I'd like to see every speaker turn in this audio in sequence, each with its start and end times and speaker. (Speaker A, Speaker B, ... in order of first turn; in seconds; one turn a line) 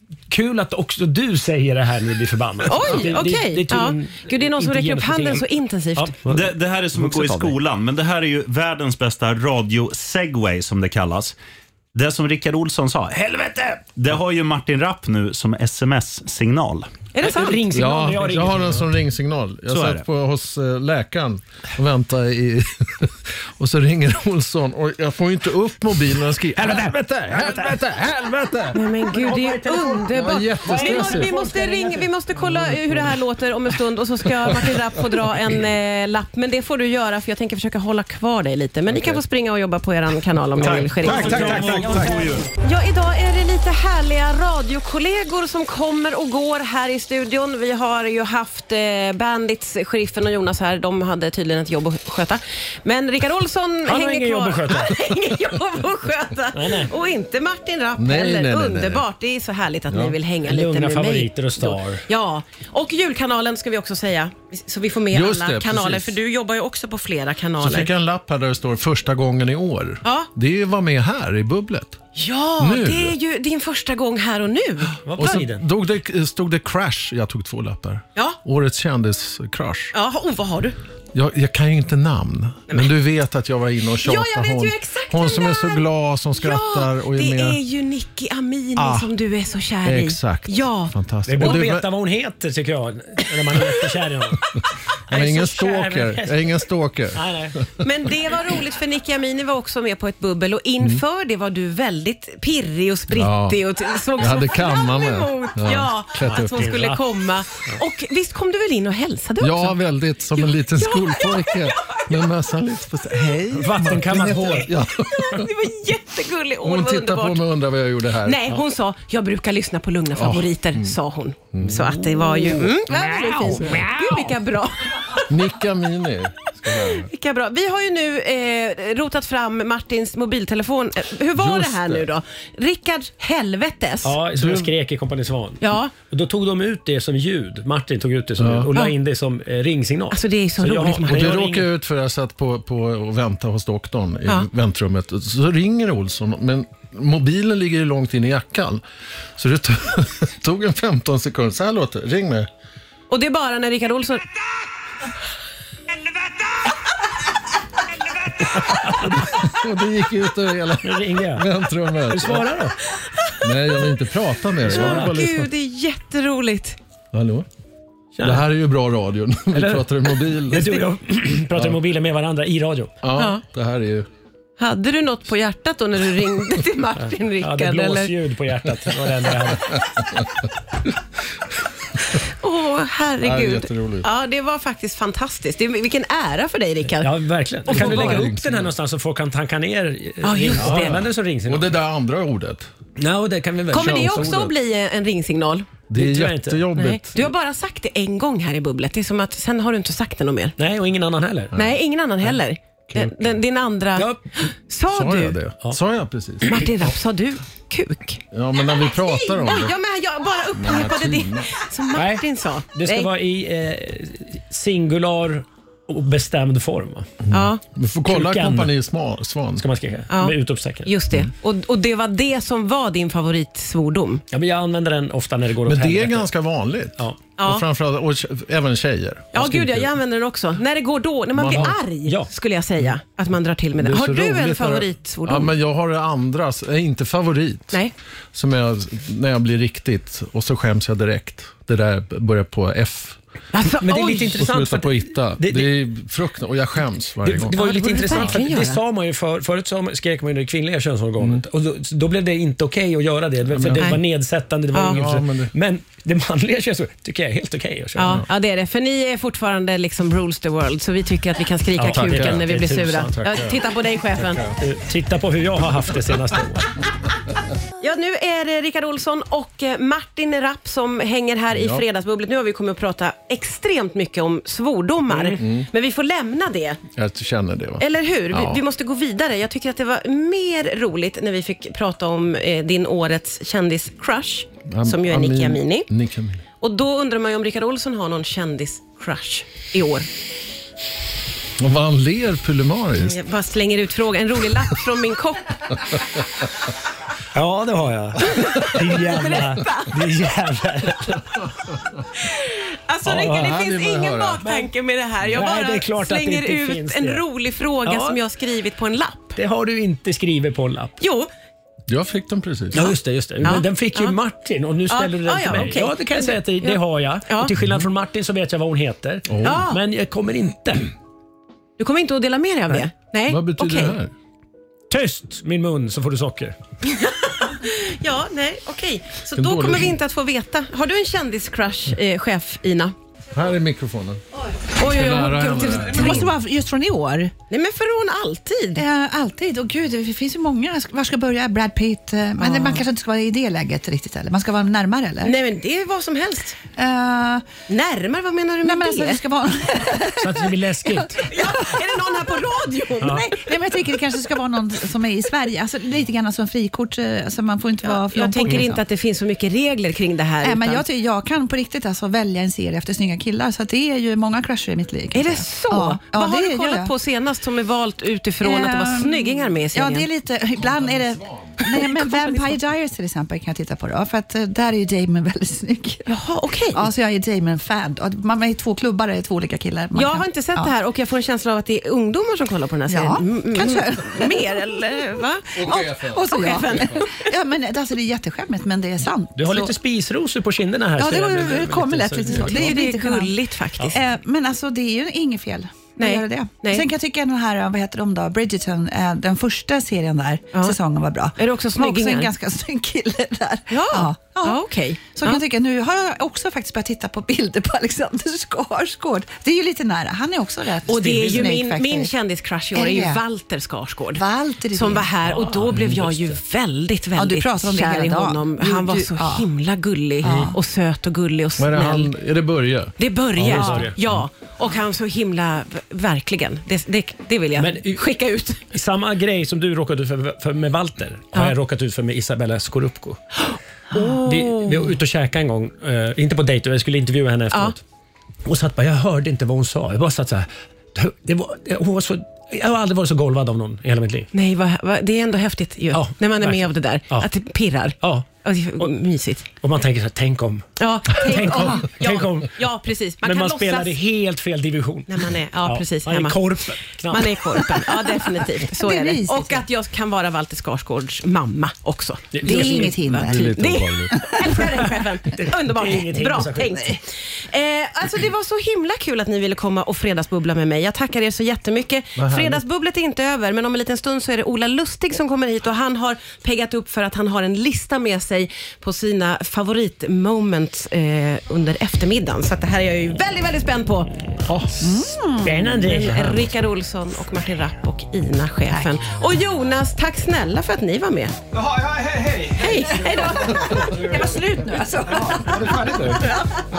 Speaker A: 0.3-6.3
Speaker B: 2.6-6.1
Speaker C: 6.3-11.3
Speaker D: 7.0-7.5
Speaker C: 11.9-16.9
Speaker A: 13.4-13.8
Speaker B: 17.1-17.6
Speaker A: 17.2-18.9
Speaker E: 17.7-28.8
Speaker C: 19.7-20.0
Speaker A: 26.6-27.7
Speaker B: 28.7-41.6
Speaker A: 29.1-33.1
Speaker E: 30.1-31.3
Speaker C: 40.6-42.5
Speaker D: 40.6-42.2
Speaker A: 40.6-42.4
Speaker B: 42.6-67.9
Speaker A: 53.8-55.0
Speaker A: 56.5-56.9
Speaker E: 58.0-59.0
Speaker E: 59.9-60.1
Speaker A: 60.4-62.0
Speaker E: 65.1-66.2
Speaker E: 67.6-72.0
Speaker B: 70.0-70.3
Speaker B: 72.2-74.9
Speaker E: 72.6-73.2
Speaker A: 75.0-75.7
Speaker E: 75.2-79.9
Speaker B: 79.9-80.7
Speaker E: 81.1-87.6
Speaker B: 84.0-85.8
Speaker B: 86.4-91.6
Speaker E: 88.8-89.1
Speaker E: 89.8-91.9
Speaker A: 91.2-94.4
Speaker A: 95.1-96.5
Speaker E: 95.1-97.7
Speaker A: 97.1-97.6
Speaker B: 97.8-109.8
Speaker E: 103.1-103.6
Speaker E: 104.2-106.7
Speaker A: 106.2-107.0
Speaker E: 109.4-115.5
Speaker B: 110.3-112.1
Speaker A: 113.5-114.7
Speaker B: 115.0-117.4
Speaker E: 116.6-118.4
Speaker B: 118.2-125.2
Speaker E: 120.1-120.9
Speaker E: 121.5-122.7
Speaker A: 122.9-124.3
Speaker E: 125.3-127.1
Speaker B: 126.7-134.1
Speaker E: 131.3-132.1
Speaker A: 134.0-141.7
Speaker E: 134.3-134.7
Speaker B: 135.6-135.9
Speaker E: 138.4-138.7
Speaker B: 140.1-141.5
Speaker E: 141.1-148.8
Speaker E: 149.4-152.5
Speaker B: 153.1-154.2
Speaker A: 158.6-159.3
Speaker E: 158.9-162.6
Speaker A: 160.8-161.5
Speaker A: 162.1-162.7
Speaker E: 163.4-165.4
Speaker A: 164.7-165.3
Speaker B: 164.7-166.8
Speaker E: 167.1-167.4
Speaker A: 168.2-168.5
Speaker E: 168.2-170.8
Speaker A: 169.5-172.9
Speaker E: 173.0-174.1
Speaker B: 173.2-173.4
Speaker B: 174.6-178.1
Speaker A: 177.4-179.8
Speaker E: 179.7-180.2
Speaker B: 182.4-187.1
Speaker E: 183.2-184.1
Speaker A: 187.0-191.8
Speaker B: 187.7-188.3
Speaker E: 187.7-188.7
Speaker B: 190.2-191.0
Speaker E: 190.6-192.7
Speaker A: 193.0-194.4
Speaker B: 193.7-195.7
Speaker E: 193.7-194.5
Speaker E: 195.9-197.3
Speaker A: 195.9-196.8
Speaker B: 196.7-200.6
Speaker A: 200.6-201.5
Speaker B: 201.5-205.4
Speaker E: 202.9-203.3
Speaker A: 203.9-204.2
Speaker E: 204.9-206.6
Speaker B: 206.4-213.1
Speaker E: 208.3-209.7
Speaker E: 210.5-211.5
Speaker A: 211.9-217.1
Speaker E: 217.3-219.6
Speaker B: 217.3-217.6
Speaker A: 218.1-218.8
Speaker A: 219.6-220.9
Speaker B: 220.1-224.2
Speaker A: 224.3-226.3
Speaker E: 225.6-229.7
Speaker A: 227.0-227.3
Speaker B: 227.4-227.6
Speaker B: 229.3-235.5
Speaker A: 229.4-229.8
Speaker E: 231.3-231.8
Speaker A: 232.0-232.3
Speaker E: 233.8-237.8
Speaker E: 238.3-243.2
Speaker B: 243.5-244.4
Speaker A: 243.7-245.8
Speaker E: 244.3-248.4
Speaker A: 247.2-258.2
Speaker B: 247.5-248.8
Speaker E: 253.5-254.0
Speaker B: 254.7-255.0
Speaker E: 254.9-255.5
Speaker B: 258.0-264.4
Speaker A: 261.8-263.5
Speaker E: 261.8-262.5
Speaker E: 263.2-263.6
Speaker E: 264.2-264.6
Speaker A: 264.6-266.7
Speaker B: 267.8-276.8
Speaker E: 271.5-271.8
Speaker E: 275.3-275.7
Speaker E: 276.9-278.6
Speaker B: 277.8-285.9
Speaker E: 284.7-286.4
Speaker B: 286.6-290.1
Speaker E: 291.6-293.2
Speaker B: 293.0-295.7
Speaker A: 297.3-301.3
Speaker B: 298.2-299.9
Speaker E: 301.3-302.0
Speaker B: 302.2-309.4
Speaker E: 303.1-304.4
Speaker A: 303.1-303.5
Speaker A: 304.4-304.7
Speaker A: 305.3-307.2
Speaker A: 307.8-308.2
Speaker A: 309.4-311.0
Speaker B: 311.0-311.3
Speaker E: 311.9-312.9
Speaker A: 312.7-320.9
Speaker B: 313.4-314.2
Speaker B: 314.9-317.5
Speaker E: 319.3-319.7
Speaker B: 319.4-319.8
Speaker B: 321.8-323.9
Speaker E: 323.3-324.1
Speaker A: 324.9-326.5
Speaker B: 326.8-332.9
Speaker E: 329.3-330.0
Speaker E: 333.3-334.2
Speaker B: 334.6-336.3
Speaker E: 334.8-336.3
Speaker F: 335.6-337.3
Speaker B: 337.5-338.8
Speaker F: 338.7-345.3
Speaker B: 342.4-342.9
Speaker B: 345.2-346.6
Speaker F: 346.7-347.4
Speaker B: 347.7-349.2
Speaker F: 348.6-351.1
Speaker A: 350.2-351.2
Speaker B: 351.2-353.5
Speaker F: 353.0-358.8
Speaker B: 357.8-360.9
Speaker F: 360.4-366.9
Speaker B: 365.1-370.1
Speaker F: 368.4-376.0
Speaker E: 370.5-371.6
Speaker B: 371.6-372.5
Speaker B: 376.1-376.9
Speaker F: 376.7-380.7
Speaker B: 379.9-387.3
Speaker F: 382.9-384.5
Speaker E: 385.5-387.1
Speaker F: 385.6-389.8
Speaker A: 389.4-392.9
Speaker F: 391.0-412.1
Speaker B: 392.3-394.0
Speaker B: 396.0-396.9
Speaker B: 401.4-402.3
Speaker B: 403.7-405.4
Speaker B: 410.9-422.1
Speaker F: 412.7-413.2
Speaker F: 414.1-415.1
Speaker A: 415.2-416.4
Speaker F: 417.1-419.5
Speaker F: 420.2-420.6
Speaker E: 421.6-422.9
Speaker B: 423.0-428.6
Speaker A: 423.4-423.9
Speaker F: 423.4-423.9
Speaker A: 427.5-428.1
Speaker A: 428.7-433.2
Speaker B: 433.4-434.8
Speaker A: 433.9-437.8
Speaker A: 438.4-444.3
Speaker B: 444.3-449.4
Speaker A: 445.9-447.3
Speaker A: 448.0-448.2
Speaker A: 449.6-452.6
Speaker B: 450.8-453.9
Speaker A: 453.2-457.8
Speaker B: 455.1-484.1
Speaker F: 458.7-459.6
Speaker A: 462.3-462.9
Speaker F: 462.4-464.6
Speaker E: 463.2-464.1
Speaker A: 465.3-466.9
Speaker E: 472.1-472.6
Speaker F: 484.8-485.7
Speaker A: 485.4-486.5
Speaker B: 485.7-491.3
Speaker D: 491.5-492.8
Speaker B: 492.5-493.9
Speaker F: 492.6-496.4
Speaker A: 494.0-494.4
Speaker A: 495.2-496.2
Speaker D: 495.2-496.2